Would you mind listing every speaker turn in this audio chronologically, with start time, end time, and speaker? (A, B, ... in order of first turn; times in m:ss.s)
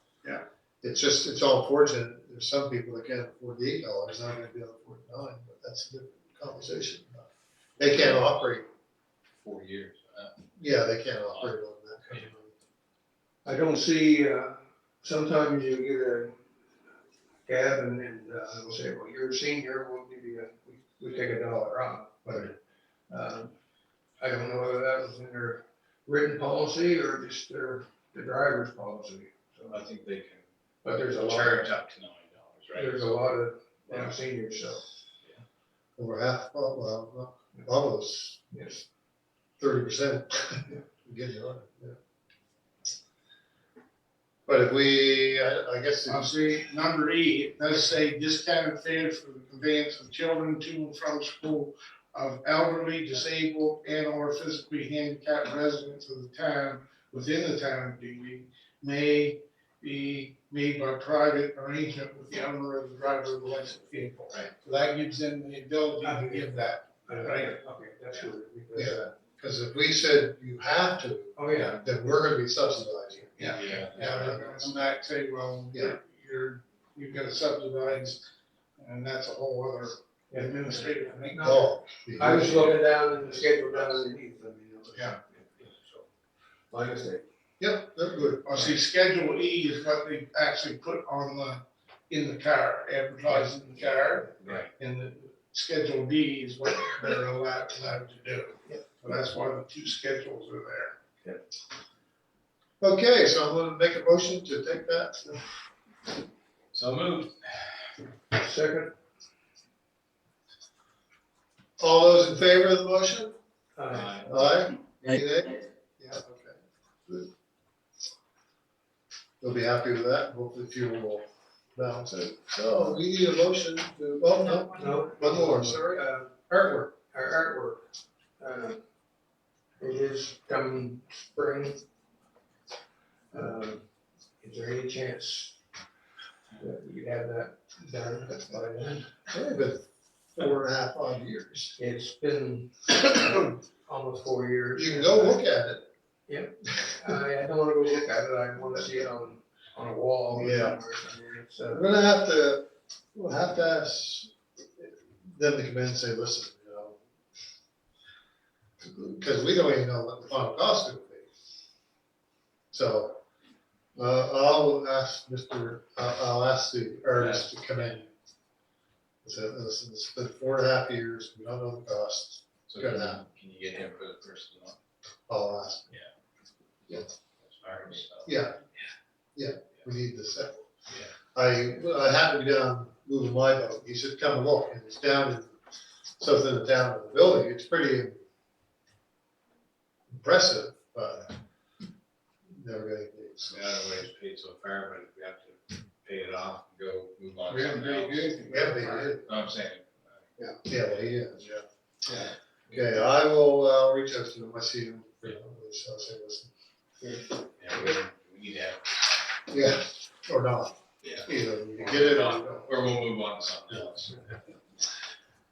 0:00.8-0:07.3 A
0:07.8-0:08.6 A
0:09.4-0:10.3 B
0:10.6-0:12.5 A
0:13.4-0:16.4 C
0:17.4-0:22.6 C
0:23.1-0:23.5 C
0:24.2-0:29.8 C
0:29.7-0:30.4 B
0:30.8-0:31.7 C
0:31.1-0:33.2 B
0:32.7-0:34.8 C
0:36.0-0:38.4 A
0:38.5-0:38.8 C
0:39.6-0:42.0 A
0:44.4-0:46.3 A
0:46.0-1:07.6 D
1:06.0-1:09.1 C
1:08.8-1:13.6 A
1:11.4-1:11.9 C
1:13.4-1:18.2 D
1:13.6-1:14.6 B
1:18.8-1:21.6 D
1:20.3-1:25.8 C
1:21.4-1:22.8 A
1:26.7-1:27.2 C
1:27.6-1:28.5 A
1:28.4-1:41.0 D
1:34.4-1:34.7 B
1:42.8-1:45.4 A
1:46.7-1:47.6 B
1:48.3-1:48.9 C
1:51.8-1:53.3 A
1:53.8-1:54.3 C
1:53.9-1:54.3 B
1:54.2-1:56.6 A
1:59.4-2:06.9 A
2:04.8-2:06.3 C
2:07.1-2:07.8 C
2:08.4-2:08.8 C
2:09.8-2:11.8 C
2:13.3-2:13.8 C
2:14.4-2:15.6 C
2:16.6-2:19.1 C
2:19.3-2:19.8 A
2:20.3-2:21.8 A
2:21.8-2:25.4 C
2:24.8-2:25.9 A
2:26.3-2:32.0 C
2:30.3-2:30.8 A
2:31.7-2:37.0 A
2:38.8-2:41.3 A
2:42.7-2:43.2 A
2:44.0-2:48.1 A
2:47.2-2:47.4 B
2:49.2-2:53.2 A
2:52.7-2:54.8 B
2:55.3-2:55.9 A
2:57.4-2:58.4 B
2:58.2-2:58.6 A
2:59.4-3:00.6 A
3:01.3-3:05.5 A
3:06.2-3:08.2 A
3:10.1-3:11.3 A
3:12.5-3:13.6 A
3:13.5-3:18.4 B
3:17.5-3:19.3 D
3:18.5-3:19.3 A
3:19.3-3:20.0 B
3:20.6-3:21.5 A
3:22.7-3:26.5 A
3:27.0-3:27.3 C
3:27.6-3:29.3 B
3:29.5-3:32.8 A
3:31.0-3:34.4 B